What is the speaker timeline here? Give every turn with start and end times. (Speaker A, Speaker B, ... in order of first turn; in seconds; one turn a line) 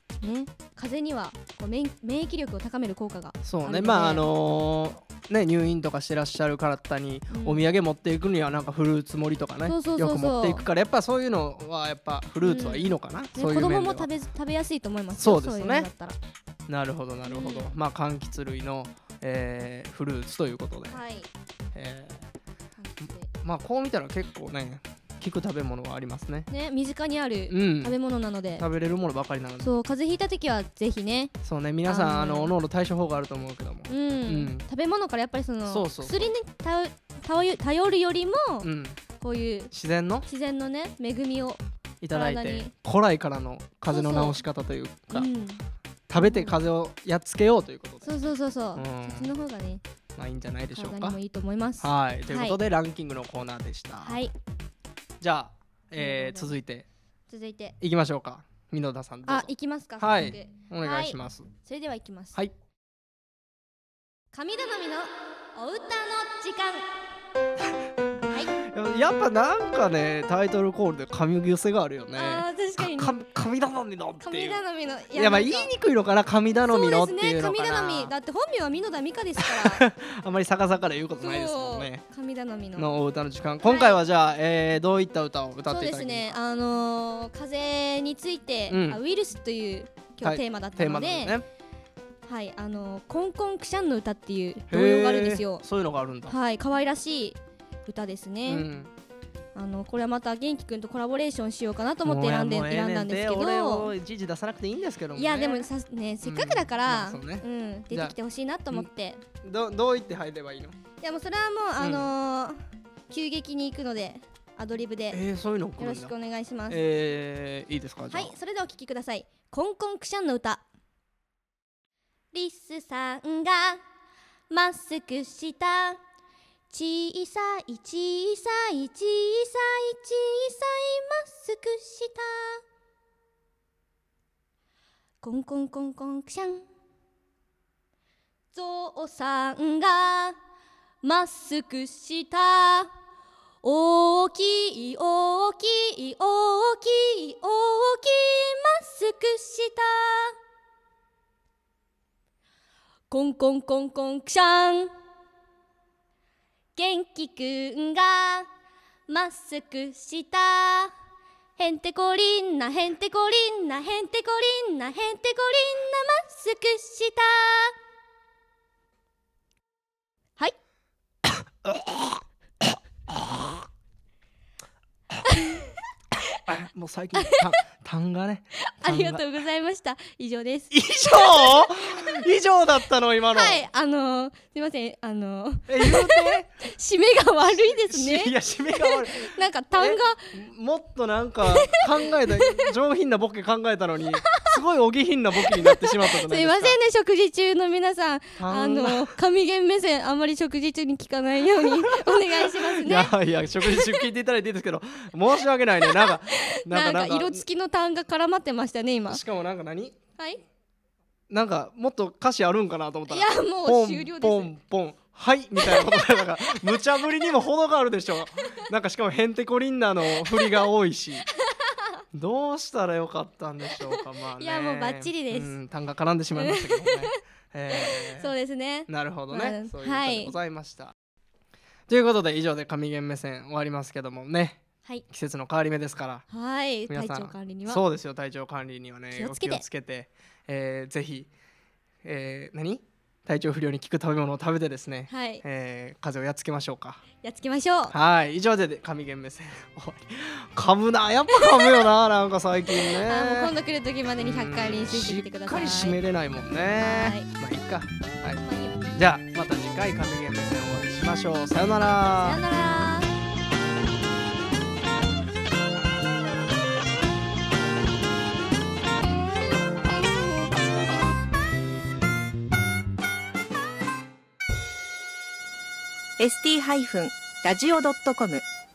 Speaker A: 0.2-4.3
Speaker B: 3.4-14.1
Speaker A: 7.3-7.6
Speaker A: 9.6-10.6
Speaker A: 12.4-16.1
Speaker B: 15.2-15.9
Speaker B: 16.7-21.0
Speaker A: 17.2-17.7
Speaker A: 20.9-21.3
Speaker B: 21.7-22.2
Speaker A: 22.8-23.3
Speaker B: 23.3-26.5
Speaker A: 26.5-28.6
Speaker B: 27.5-28.0
Speaker B: 28.6-29.7
Speaker A: 29.6-31.3
Speaker B: 31.4-34.6
Speaker A: 31.8-32.5
Speaker A: 33.9-39.7
Speaker B: 35.6-36.3
Speaker B: 38.6-39.0
Speaker B: 39.7-40.3
Speaker A: 40.2-42.7
Speaker B: 42.0-45.3
Speaker A: 43.9-44.4
Speaker A: 45.1-45.6
Speaker B: 46.1-48.1
Speaker A: 46.2-46.6
Speaker A: 48.0-49.8
Speaker B: 48.7-49.3
Speaker B: 50.1-51.2
Speaker A: 50.7-52.6
Speaker B: 51.8-54.2
Speaker A: 54.0-54.3
Speaker B: 55.2-56.9
Speaker A: 56.0-56.5
Speaker A: 57.3-57.7
Speaker B: 57.8-61.5
Speaker A: 59.2-62.4
Speaker A: 64.3-66.8
Speaker A: 68.3-68.5
Speaker B: 68.5-74.6
Speaker A: 72.2-73.2
Speaker A: 74.2-75.7
Speaker B: 75.1-78.1
Speaker A: 76.6-79.8
Speaker B: 79.4-82.0
Speaker A: 81.2-82.9
Speaker B: 82.8-86.4
Speaker A: 83.6-84.0
Speaker A: 85.7-91.4
Speaker B: 88.7-89.0
Speaker B: 90.2-91.4
Speaker A: 92.2-95.6
Speaker B: 94.7-96.3
Speaker A: 96.3-98.7
Speaker B: 98.5-98.9
Speaker A: 99.5-103.9
Speaker B: 102.0-105.7
Speaker A: 105.1-109.2
Speaker B: 106.2-108.1
Speaker B: 109.4-110.8
Speaker A: 111.0-115.2
Speaker B: 111.8-112.1
Speaker B: 115.1-116.1
Speaker A: 115.8-116.8
Speaker B: 116.7-118.3
Speaker A: 118.1-120.6
Speaker A: 122.3-123.8
Speaker A: 124.5-126.0
Speaker A: 126.7-132.6
Speaker A: 135.2-136.6
Speaker A: 138.5-140.4
Speaker A: 141.0-142.9
Speaker A: 143.6-150.3
Speaker A: 153.1-154.9
Speaker A: 156.8-158.5
Speaker A: 159.1-160.9
Speaker A: 161.6-167.7
Speaker B: 171.6-172.2
Speaker B: 173.1-173.6
Speaker A: 175.2-175.7
Speaker B: 176.5-179.2
Speaker A: 177.2-177.5
Speaker A: 178.6-182.2
Speaker B: 180.7-183.6
Speaker A: 183.3-190.4
Speaker B: 185.7-186.5
Speaker B: 187.8-196.8
Speaker A: 191.7-192.7
Speaker A: 195.4-204.0
Speaker B: 198.4-199.1
Speaker B: 201.6-207.4
Speaker A: 205.8-209.2
Speaker B: 209.1-209.9
Speaker A: 210.2-210.4
Speaker B: 211.3-221.2
Speaker A: 213.1-214.5
Speaker A: 215.6-216.8
Speaker A: 220.1-220.5
Speaker A: 221.4-221.8
Speaker B: 222.1-228.3
Speaker A: 223.8-225.6
Speaker A: 226.3-227.2
Speaker A: 227.7-230.3
Speaker B: 228.9-230.9
Speaker B: 231.9-236.2
Speaker A: 236.3-237.8
Speaker B: 236.9-241.3
Speaker A: 239.1-239.6
Speaker B: 242.0-247.0
Speaker A: 245.1-245.4
Speaker A: 247.2-247.9
Speaker B: 247.9-253.5
Speaker A: 251.3-251.8
Speaker A: 252.8-256.0
Speaker B: 254.2-258.4
Speaker A: 256.7-257.3
Speaker A: 258.4-259.0
Speaker B: 258.9-262.4
Speaker A: 262.1-263.1
Speaker C: 276.2-278.4